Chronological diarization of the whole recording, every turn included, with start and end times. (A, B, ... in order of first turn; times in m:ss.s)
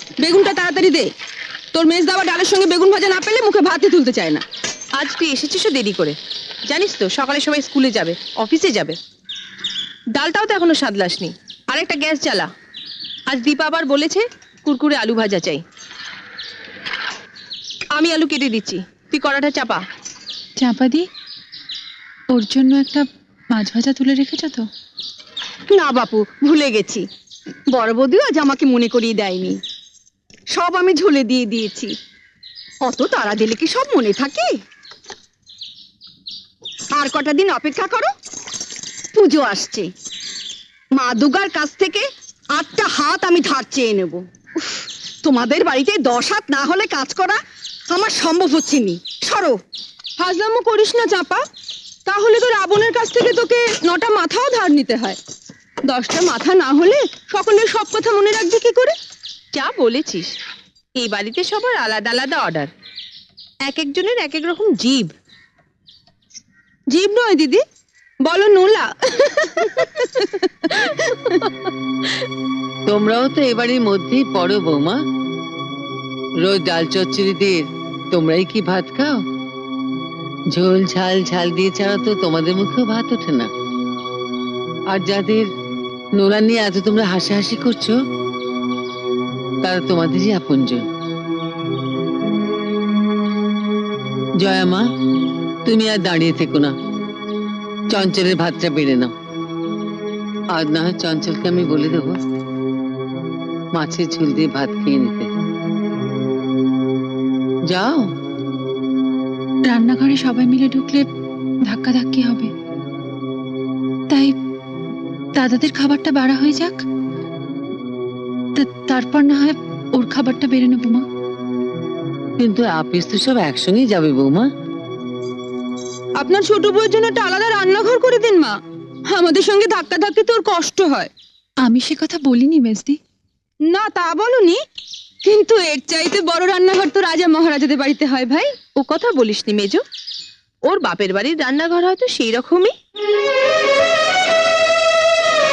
0:00.2-0:01.1 A
0:01.7-0:04.4 A
0:05.0-0:09.0 B
0:10.1-0:12.5 B
0:13.3-0:15.6 B
0:17.9-0:19.8 B
0:20.6-0:21.1 C
0:22.3-0:24.7 C
0:25.7-0:27.1 D
0:27.7-0:29.6 D
0:30.5-0:31.9 D
0:32.8-0:34.6 D
0:36.9-0:38.1 D
0:39.1-0:39.9 D
0:40.9-0:49.6 D
0:50.2-0:51.5 A
0:52.1-0:55.2 A
0:55.9-0:59.0 A
0:59.5-1:00.4 B
1:01.0-1:02.7 B
1:03.7-1:05.1 B
1:06.9-1:07.6 A
1:08.2-1:11.1 A
1:12.9-1:15.0 E
1:16.4-1:19.2 E
1:20.5-1:23.5 E
1:24.9-1:25.5 E
1:26.2-1:28.0 E
1:29.6-1:30.9 E
1:34.4-1:34.8 E
1:35.6-1:36.7 E
1:37.9-1:39.1 E
1:40.5-1:42.2 E
1:43.7-1:45.3 E
1:47.7-1:48.1 E
1:49.7-1:51.1 C
1:51.6-1:52.5 C
1:54.1-1:54.4 C
1:55.4-1:56.8 C
1:58.6-2:01.0 C
2:02.4-2:04.5 E
2:06.2-2:11.1 A
2:11.6-2:13.0 C
2:13.6-2:14.6 A
2:15.2-2:18.6 A
2:18.8-2:19.8 B
2:20.7-2:22.7 B